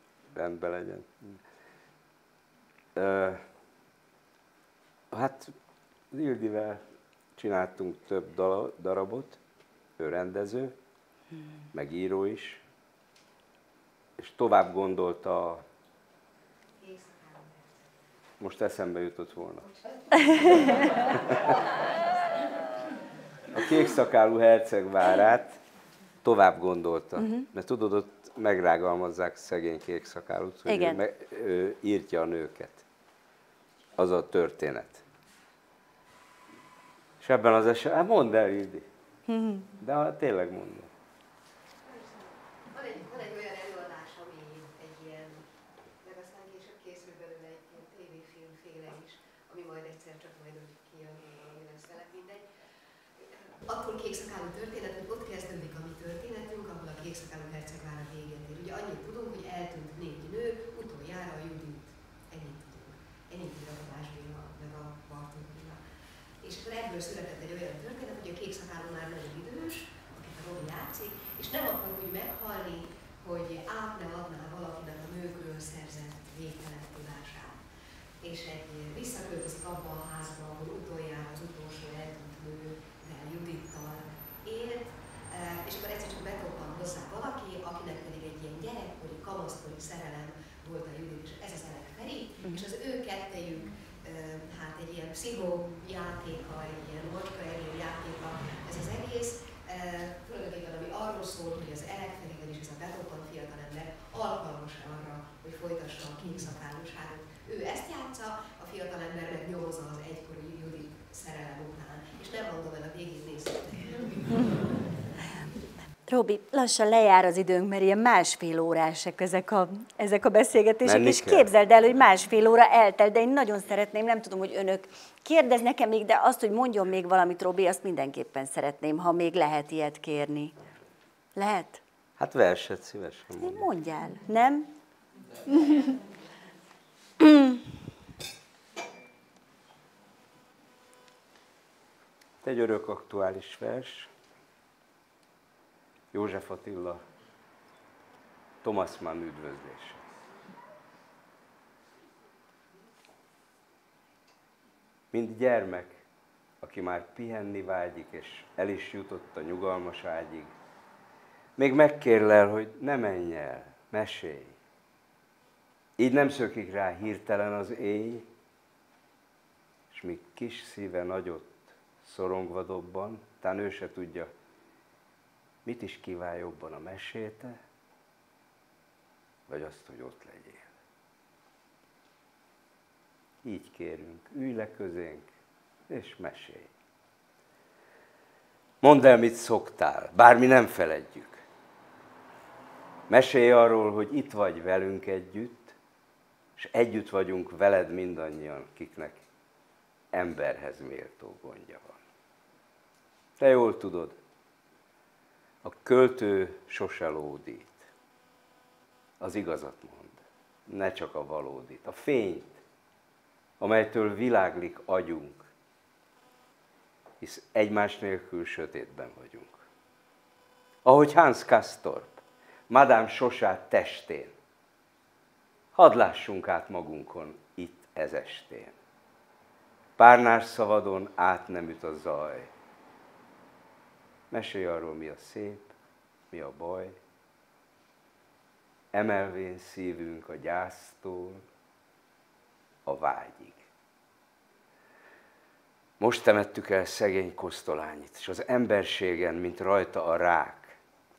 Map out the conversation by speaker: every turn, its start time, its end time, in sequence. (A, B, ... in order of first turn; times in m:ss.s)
0:00.3-0:01.4 A
0:02.9-0:03.4 A
0:05.1-0:05.5 A
0:06.1-0:06.8 A
0:07.4-0:09.4 A
0:10.0-0:10.8 A
0:11.7-0:12.6 A
0:14.2-0:15.6 A
0:16.8-0:17.8 B
0:18.4-0:19.6 A
0:19.7-0:21.7 B
0:20.4-0:21.5 A
0:23.5-0:25.6 A
0:26.2-0:32.8 A
0:27.2-0:27.5 C
0:30.6-0:31.0 C
0:34.0-0:35.0 A
0:37.2-0:38.9 A
0:39.3-0:39.7 C
0:39.8-0:40.9 A
0:41.8-0:45.5 B
0:46.0-0:52.5 B
0:53.2-1:05.8 B
1:06.4-1:17.6 B
1:18.2-1:54.6 B
1:56.1-2:10.5 C
2:00.8-2:01.5 A
2:11.4-2:11.8 C
2:12.2-2:13.7 A
2:13.4-2:14.7 C
2:15.5-2:16.0 C
2:17.2-2:17.6 C
2:22.4-2:24.1 A
2:26.1-2:27.0 A
2:28.6-2:30.0 A
2:35.1-2:36.0 A
2:36.6-2:40.5 A
2:41.6-2:44.6 A
2:46.0-2:48.3 A
2:49.9-2:54.3 A
2:55.6-2:57.6 A
2:59.5-3:00.7 A
3:03.4-3:05.3 A
3:05.9-3:06.7 A
3:08.8-3:11.4 A
3:13.1-3:15.8 A
3:16.6-3:19.2 A
3:20.1-3:22.0 A
3:23.4-3:24.2 A
3:25.6-3:27.9 A
3:29.2-3:32.6 A
3:33.6-3:35.5 A
3:37.2-3:39.6 A
3:40.8-3:44.3 A
3:45.7-3:48.7 A
3:50.0-3:52.5 A
3:54.3-3:55.7 A
3:56.3-3:57.0 A
3:58.9-4:01.4 A
4:02.8-4:03.6 A
4:06.0-4:10.8 A